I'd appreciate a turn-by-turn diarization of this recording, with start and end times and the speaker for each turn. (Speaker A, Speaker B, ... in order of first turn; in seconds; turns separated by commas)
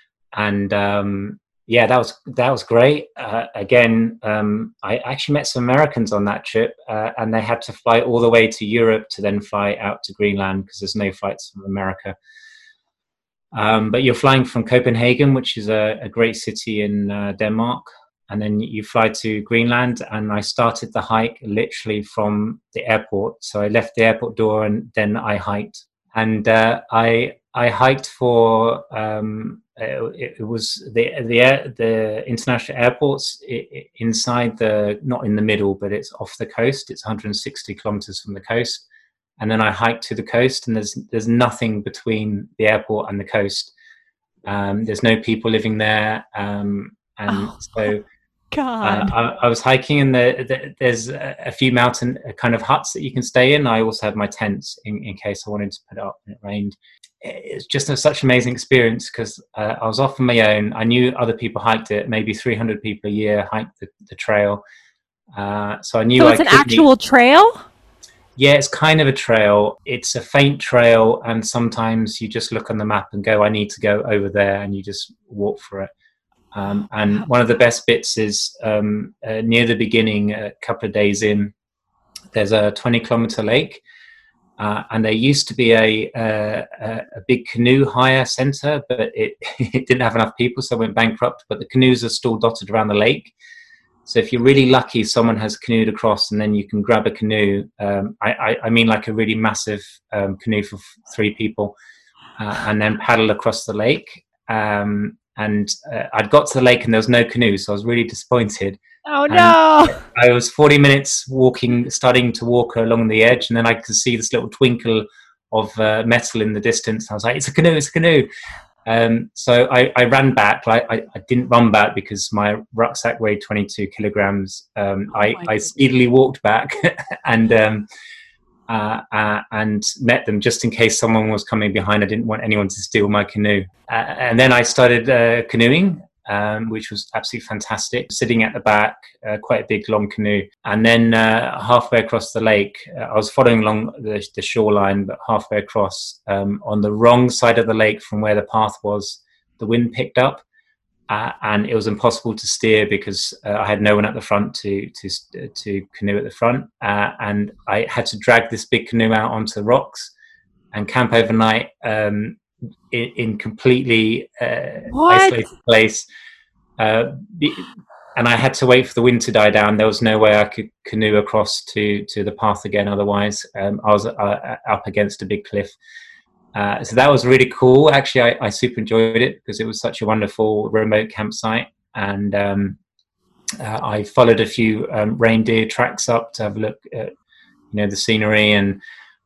Speaker A: 0.3-12.2, Speaker A: 13.5-38.8, Speaker A: 39.4-43.7, Speaker A: 44.5-48.0, Speaker B: 47.3-47.5, Speaker B: 48.5-49.1, Speaker A: 48.8-64.6, Speaker A: 65.3-66.9, Speaker B: 66.2-67.7, Speaker A: 68.4-75.9, Speaker A: 76.5-81.5, Speaker A: 82.3-83.8, Speaker A: 84.6-93.3, Speaker A: 94.0-101.7, Speaker A: 102.4-118.3, Speaker B: 109.0-110.0, Speaker A: 118.8-127.9, Speaker B: 125.2-125.6, Speaker A: 128.7-150.4, Speaker A: 151.1-160.1, Speaker A: 160.7-162.4, Speaker A: 162.9-166.1, Speaker B: 164.9-165.4, Speaker A: 166.8-175.8, Speaker A: 176.5-182.8, Speaker A: 183.6-187.1, Speaker A: 187.7-188.8